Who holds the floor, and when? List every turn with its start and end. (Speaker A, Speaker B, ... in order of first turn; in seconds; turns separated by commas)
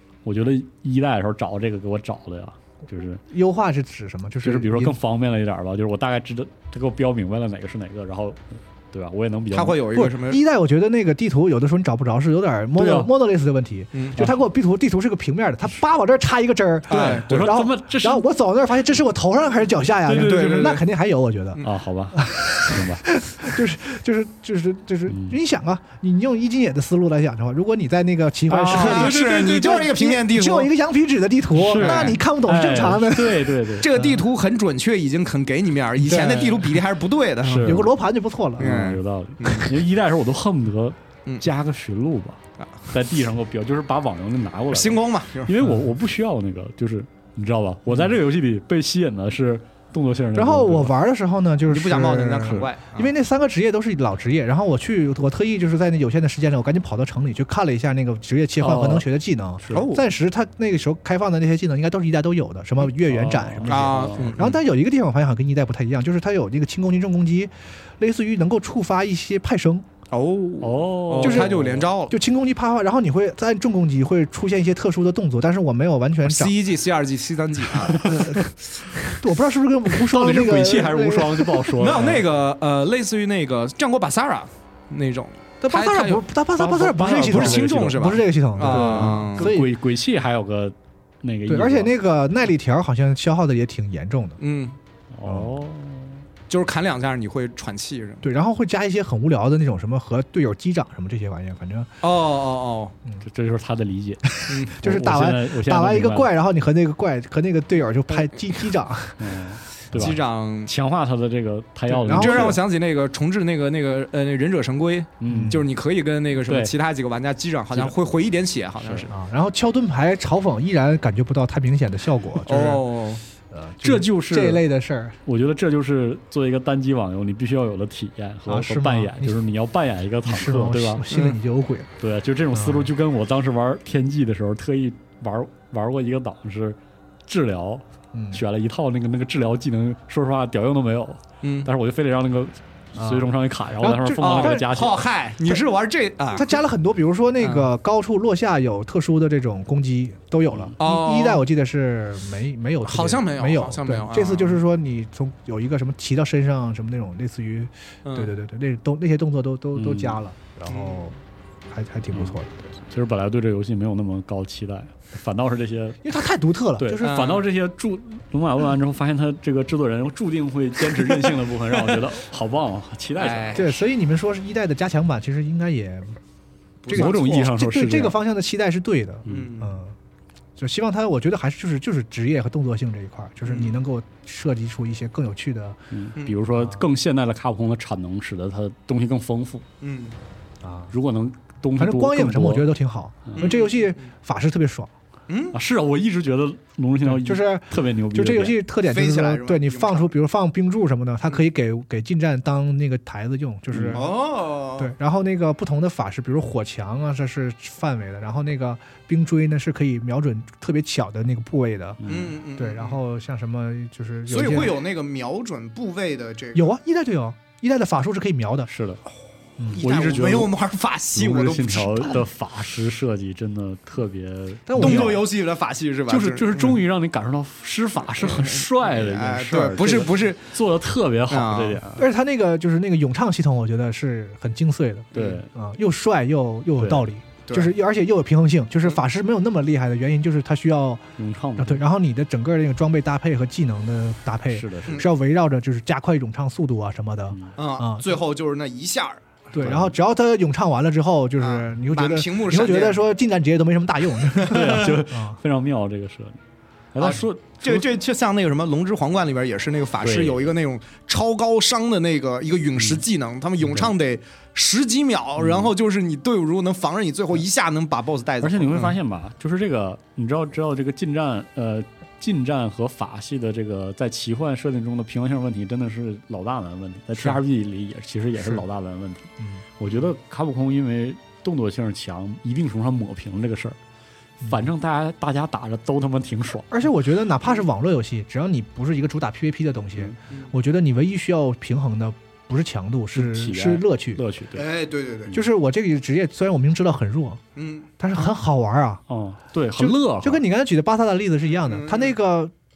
Speaker A: 0.2-3.2, Speaker B: 3.3-5.0, Speaker A: 4.4-9.8, Speaker C: 9.5-10.4, Speaker B: 9.9-21.6, Speaker A: 12.8-13.1, Speaker C: 13.9-14.3, Speaker C: 16.9-17.5, Speaker A: 16.9-18.2, Speaker A: 20.1-20.8, Speaker C: 20.1-20.8, Speaker A: 21.6-23.0, Speaker B: 22.1-33.5, Speaker A: 25.1-25.4, Speaker C: 28.5-30.7, Speaker A: 28.5-29.9, Speaker A: 31.5-34.2, Speaker C: 31.7-32.2, Speaker C: 33.8-37.8, Speaker B: 36.0-36.7, Speaker A: 37.4-37.9, Speaker B: 37.6-38.8, Speaker C: 38.6-39.7, Speaker A: 38.6-50.9, Speaker C: 44.7-45.5, Speaker B: 50.3-69.9, Speaker C: 51.7-53.1, Speaker A: 58.6-59.1, Speaker C: 59.7-60.0, Speaker A: 63.0-64.4, Speaker C: 63.6-64.6, Speaker C: 70.1-72.2, Speaker A: 70.6-71.9, Speaker B: 71.2-76.5, Speaker C: 76.2-78.3, Speaker B: 78.0-78.4, Speaker A: 78.1-78.4, Speaker B: 79.1-81.7, Speaker A: 80.0-82.2, Speaker C: 81.8-89.5, Speaker B: 85.6-89.7, Speaker A: 86.6-88.0, Speaker A: 88.7-91.9, Speaker B: 91.5-94.4, Speaker C: 94.4-94.8, Speaker A: 95.1-96.2, Speaker B: 95.2-95.5, Speaker C: 96.5-98.2, Speaker B: 98.2-101.9, Speaker C: 102.0-102.9, Speaker A: 103.2-106.3, Speaker B: 104.2-109.3, Speaker C: 104.5-104.8, Speaker A: 109.2-112.6, Speaker C: 109.9-110.7, Speaker B: 112.0-112.6, Speaker C: 112.1-119.1, Speaker A: 115.2-115.6, Speaker B: 115.3-115.7, Speaker A: 116.5-116.7, Speaker A: 118.8-119.1, Speaker B: 119.1-122.9, Speaker C: 122.4-123.2, Speaker B: 123.5-125.2, Speaker A: 123.8-124.6, Speaker A: 125.2-131.1, Speaker B: 128.5-129.4, Speaker B: 130.2-131.9, Speaker C: 131.1-131.4, Speaker A: 132.0-145.0, Speaker B: 132.5-132.9, Speaker B: 138.1-138.4, Speaker C: 141.4-141.7, Speaker B: 143.0-144.7, Speaker C: 144.2-146.6, Speaker B: 146.3-161.2, Speaker C: 147.4-147.7, Speaker C: 150.8-151.4, Speaker C: 152.8-154.6, Speaker C: 158.0-158.3, Speaker A: 159.8-160.2, Speaker C: 160.7-161.0, Speaker B: 161.7-162.7, Speaker A: 162.1-162.4, Speaker A: 162.9-166.0, Speaker B: 166.0-167.2, Speaker A: 166.8-173.6, Speaker C: 167.0-167.4, Speaker C: 173.2-173.8, Speaker B: 173.5-176.2, Speaker C: 176.8-177.4, Speaker B: 176.9-179.9, Speaker A: 176.9-178.2, Speaker C: 179.2-179.7, Speaker B: 180.6-185.8, Speaker C: 183.4-183.8, Speaker A: 185.9-189.6, Speaker B: 186.6-186.8, Speaker C: 189.8-190.2, Speaker B: 190.6-190.9, Speaker A: 190.9-192.7, Speaker B: 191.8-194.9, Speaker C: 193.4-194.0, Speaker C: 195.3-195.6, Speaker A: 195.5-198.6, Speaker B: 197.0-204.1, Speaker C: 198.8-200.1, Speaker A: 203.7-204.0, Speaker C: 203.9-204.9, Speaker B: 204.8-214.8, Speaker A: 212.0-212.3, Speaker C: 212.1-213.0, Speaker C: 214.3-216.7, Speaker B: 216.5-218.7, Speaker A: 218.7-219.0, Speaker C: 219.7-222.2, Speaker A: 219.8-220.5, Speaker A: 221.1-225.2, Speaker B: 224.7-225.3, Speaker C: 224.8-226.8, Speaker A: 226.1-232.1, Speaker C: 228.1-230.5, Speaker C: 231.3-231.8, Speaker B: 232.0-248.1, Speaker A: 235.1-235.5, Speaker A: 236.8-237.1, Speaker C: 237.4-237.7, Speaker A: 241.2-241.8, Speaker A: 244.5-245.0, Speaker C: 247.6-249.2, Speaker B: 249.5-255.4, Speaker A: 249.6-249.9, Speaker C: 251.4-253.0, Speaker C: 254.3-254.9, Speaker A: 254.4-256.4, Speaker A: 256.9-257.9, Speaker C: 257.0-268.9, Speaker A: 260.0-260.5, Speaker A: 262.8-263.0, Speaker A: 263.6-263.9, Speaker A: 265.4-265.7, Speaker A: 268.4-283.8, Speaker B: 279.4-279.6, Speaker A: 284.4-286.8, Speaker B: 286.7-294.2, Speaker A: 293.1-294.7, Speaker C: 294.5-295.4, Speaker B: 295.3-297.4, Speaker C: 297.6-297.9, Speaker B: 298.0-299.0, Speaker A: 299.1-300.4, Speaker B: 299.8-302.5, Speaker C: 301.6-302.1